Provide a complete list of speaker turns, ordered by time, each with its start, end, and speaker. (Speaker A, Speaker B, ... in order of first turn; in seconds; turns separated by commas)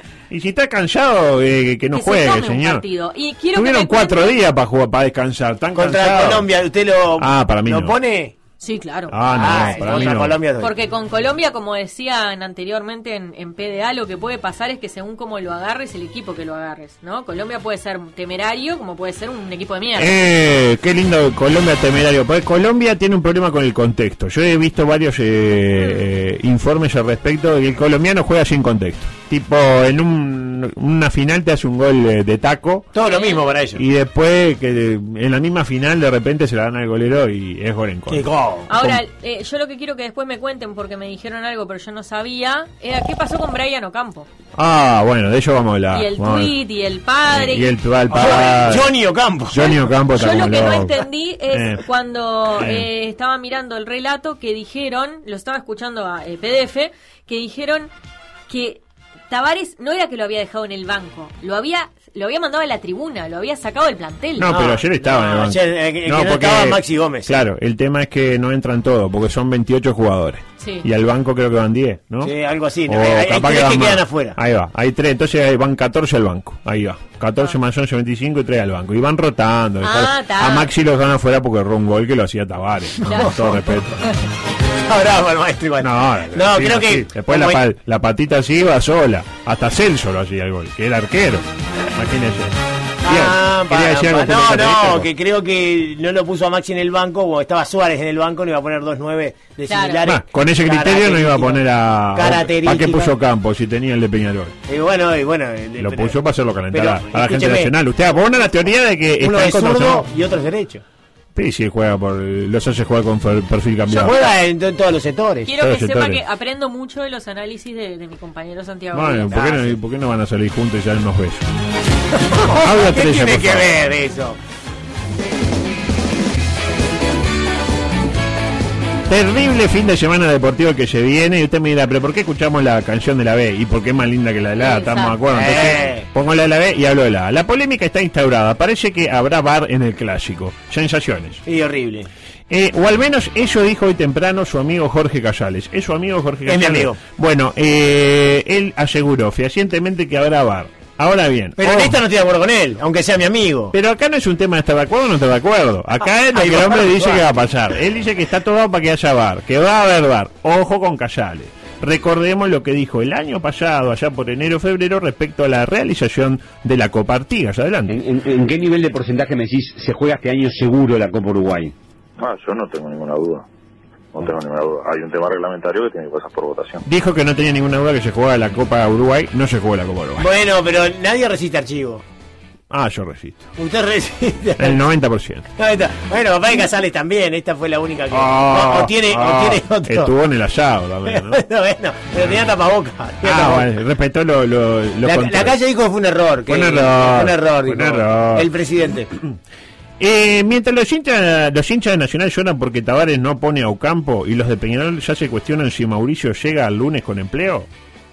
Speaker A: 0.3-2.8, Speaker B: 1.9-4.4, Speaker A: 3.5-6.5, Speaker C: 5.7-8.3, Speaker A: 7.2-8.0, Speaker B: 8.6-10.1, Speaker A: 9.1-10.4, Speaker C: 9.3-10.7, Speaker B: 10.6-20.2, Speaker A: 19.9-32.9, Speaker C: 32.9-33.8, Speaker B: 33.0-33.4, Speaker A: 33.8-39.0, Speaker C: 38.1-38.7, Speaker B: 38.7-44.3, Speaker A: 44.5-46.5, Speaker B: 45.9-47.7, Speaker A: 47.3-48.9, Speaker C: 48.1-49.8, Speaker A: 49.5-51.8, Speaker B: 49.6-57.9, Speaker A: 52.6-52.9, Speaker B: 58.5-64.5, Speaker A: 64.4-72.3, Speaker C: 64.4-67.4, Speaker B: 70.6-70.8, Speaker C: 72.2-74.4, Speaker A: 72.9-84.0, Speaker B: 79.8-80.7, Speaker C: 83.0-83.8, Speaker B: 83.0-83.3, Speaker C: 84.9-87.6, Speaker A: 85.8-95.1, Speaker C: 93.0-101.6, Speaker B: 99.7-100.0, Speaker A: 100.0-104.5, Speaker C: 102.1-103.2, Speaker C: 104.7-106.2, Speaker A: 105.8-110.0, Speaker C: 106.7-107.7, Speaker C: 109.2-110.8, Speaker A: 111.3-114.2, Speaker C: 113.9-115.5, Speaker B: 115.5-119.7, Speaker A: 115.6-116.2, Speaker A: 118.9-121.5, Speaker C: 119.3-119.6, Speaker C: 122.1-124.4, Speaker A: 122.4-123.8, Speaker A: 129.1-141.4, Speaker B: 134.6-135.2, Speaker C: 135.3-136.1, Speaker C: 141.4-142.1, Speaker A: 142.5-152.0, Speaker C: 146.4-147.0, Speaker C: 151.6-153.7, Speaker A: 153.7-167.9, Speaker C: 156.3-157.2, Speaker D: 167.9-171.7, Speaker E: 172.2-173.4, Speaker E: 174.1-176.8, Speaker A: 176.8-180.3, Speaker C: 180.2-182.0, Speaker A: 182.7-183.5, Speaker C: 183.6-184.8, Speaker A: 184.6-185.5, Speaker C: 185.6-190.1, Speaker A: 188.1-191.4, Speaker C: 191.1-193.7, Speaker A: 193.2-195.5, Speaker C: 195.0-199.1, Speaker A: 196.5-198.5, Speaker A: 200.0-207.7